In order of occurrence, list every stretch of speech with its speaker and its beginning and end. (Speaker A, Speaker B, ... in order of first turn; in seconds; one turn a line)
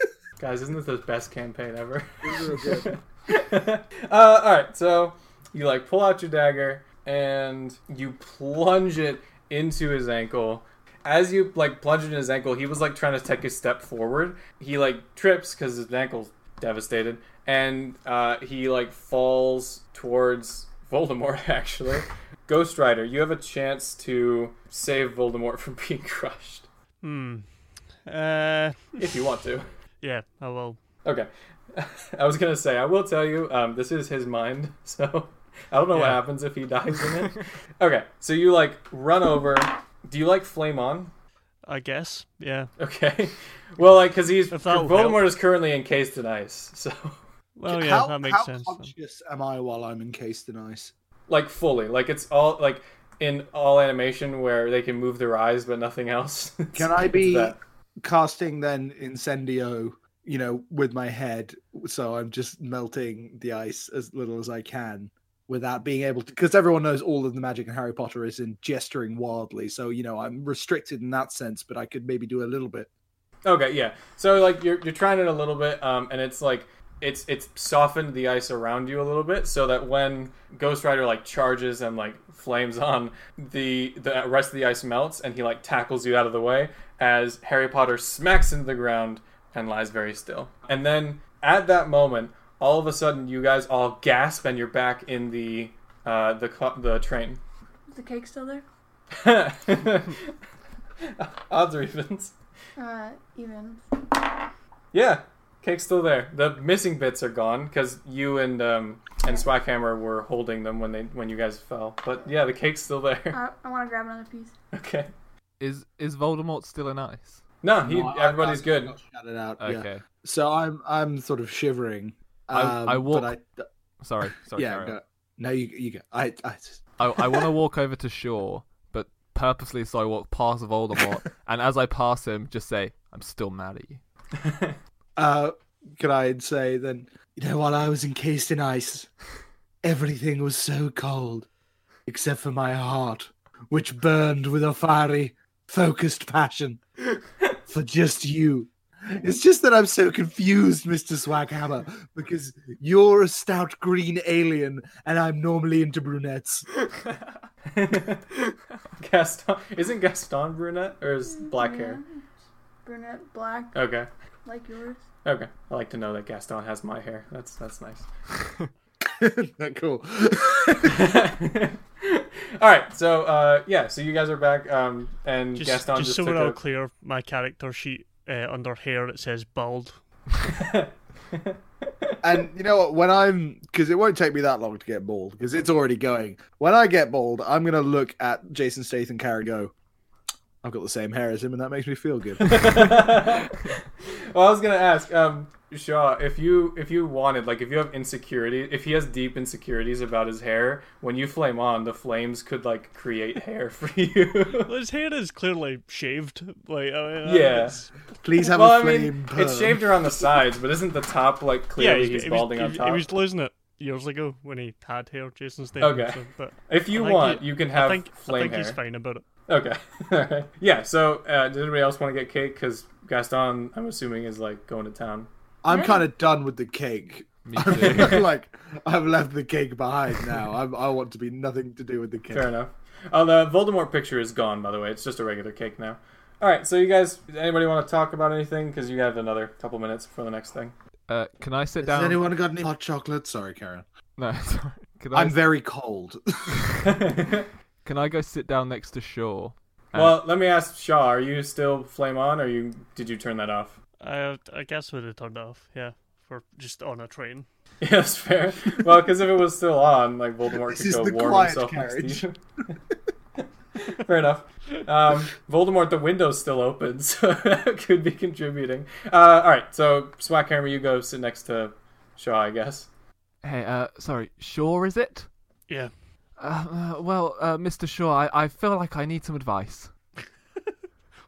Speaker A: 0.4-26.7
Speaker B: 2.2-2.9
Speaker C: 27.0-29.0
Speaker A: 29.0-29.7
Speaker C: 30.0-30.8
Speaker A: 31.0-41.1
Speaker C: 35.9-36.2
Speaker C: 41.6-42.7
Speaker A: 42.8-47.2
Speaker C: 44.5-45.3
Speaker C: 47.5-48.9
Speaker B: 47.7-50.9
Speaker A: 51.3-57.6
Speaker B: 56.7-72.9
Speaker A: 73.4-97.4
Speaker D: 97.9-98.6
Speaker A: 99.2-100.3
Speaker A: 101.1-102.3
Speaker D: 102.8-103.9
Speaker A: 104.9-113.4
Speaker D: 113.3-114.5
Speaker A: 114.7-115.1
Speaker E: 115.6-117.4
Speaker A: 117.6-119.0
Speaker B: 117.8-123.6
Speaker E: 119.6-120.0
Speaker E: 122.5-123.4
Speaker E: 124.0-124.9
Speaker B: 124.3-127.5
Speaker E: 127.0-134.0
Speaker A: 134.4-134.7
Speaker B: 135.2-139.1
Speaker B: 139.8-141.5
Speaker B: 142.1-146.8
Speaker B: 147.7-156.7
Speaker A: 157.7-158.2
Speaker A: 159.0-162.0
Speaker D: 161.3-162.2
Speaker D: 162.8-163.8
Speaker A: 163.7-164.1
Speaker D: 164.4-165.0
Speaker A: 165.2-168.1
Speaker B: 169.0-171.0
Speaker A: 170.9-176.6
Speaker C: 175.5-180.0
Speaker A: 180.5-181.6
Speaker B: 182.2-189.7
Speaker B: 190.6-193.0
Speaker A: 192.5-204.7
Speaker C: 204.6-207.9
Speaker A: 207.2-207.8
Speaker B: 208.1-209.9
Speaker A: 208.4-213.0
Speaker C: 211.8-219.2
Speaker A: 215.8-218.8
Speaker A: 219.5-225.3
Speaker B: 225.6-232.5
Speaker D: 225.7-226.0
Speaker E: 227.4-228.2
Speaker A: 232.3-240.7
Speaker E: 241.1-242.2
Speaker B: 241.8-243.8
Speaker E: 244.2-245.5
Speaker B: 245.1-246.6
Speaker A: 247.0-247.4
Speaker E: 247.8-250.2
Speaker A: 249.9-253.8
Speaker C: 254.0-257.5
Speaker A: 257.8-262.3
Speaker B: 260.7-262.2
Speaker A: 263.8-272.9
Speaker E: 273.4-275.8
Speaker C: 275.7-276.1
Speaker E: 276.4-280.2